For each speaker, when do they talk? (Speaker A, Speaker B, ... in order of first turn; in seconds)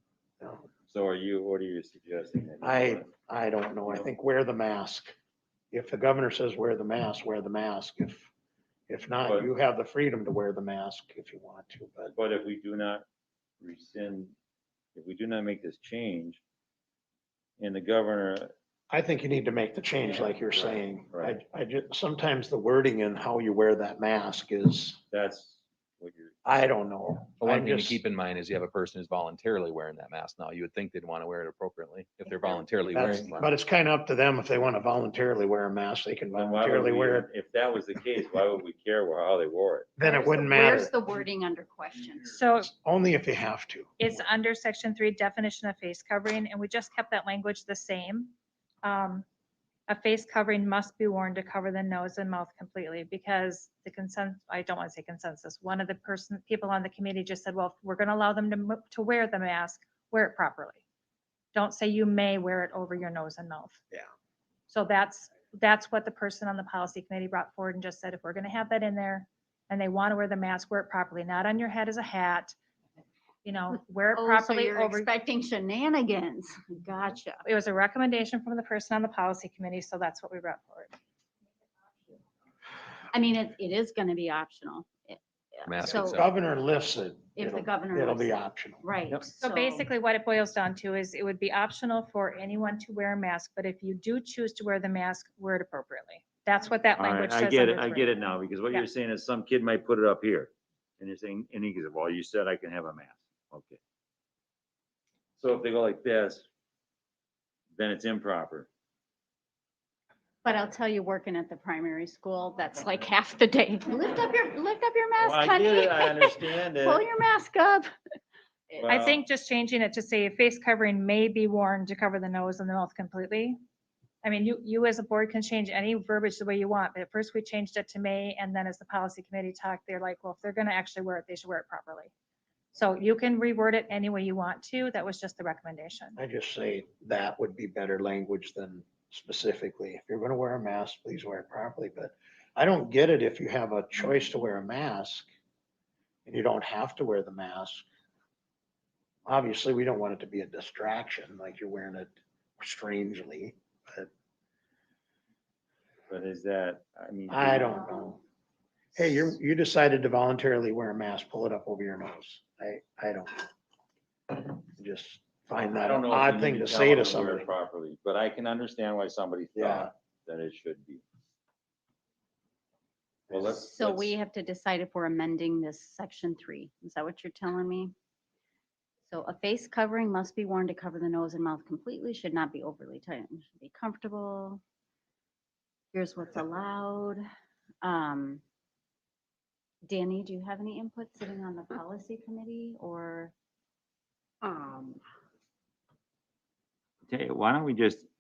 Speaker A: 0.9-3.1, 9.2-9.5, 12.1-13.0, 13.6-14.3, 14.9-16.4, 17.6-18.5, 20.0-21.4, 25.1-26.4, 36.3-39.9, 97.0-103.8, 105.4-106.4, 107.8-108.7, 115.2-117.1, 118.8-119.2, 156.1-157.8, 165.6-171.0, 173.3-174.2, 197.1-198.1
Speaker B: 2.6-5.1, 5.7-8.3, 8.9-12.1, 18.9-25.0, 26.4-28.0, 32.9-37.3, 40.0-40.9, 42.6-43.9, 86.0-88.8, 136.2-145.3, 146.2-147.8, 149.2-154.1, 157.3-158.2, 158.9-163.4, 164.7-167.5, 169.6-169.9
Speaker C: 27.4-33.5, 85.6-86.3
Speaker D: 32.3-32.6, 40.0-42.4, 73.7-77.4, 83.1-85.2, 85.7-86.2, 87.4-89.9, 110.4-117.9, 173.5-177.9, 179.1-184.6, 185.9-187.2, 187.8-188.4, 189.8-193.3, 194.5-194.9
Speaker E: 42.3-42.7, 44.0-49.3, 49.9-60.8, 61.5-63.8, 64.7-72.6, 73.4-75.1, 77.5-81.0, 89.4-98.9, 118.9-123.6, 124.2-132.1, 132.7-136.2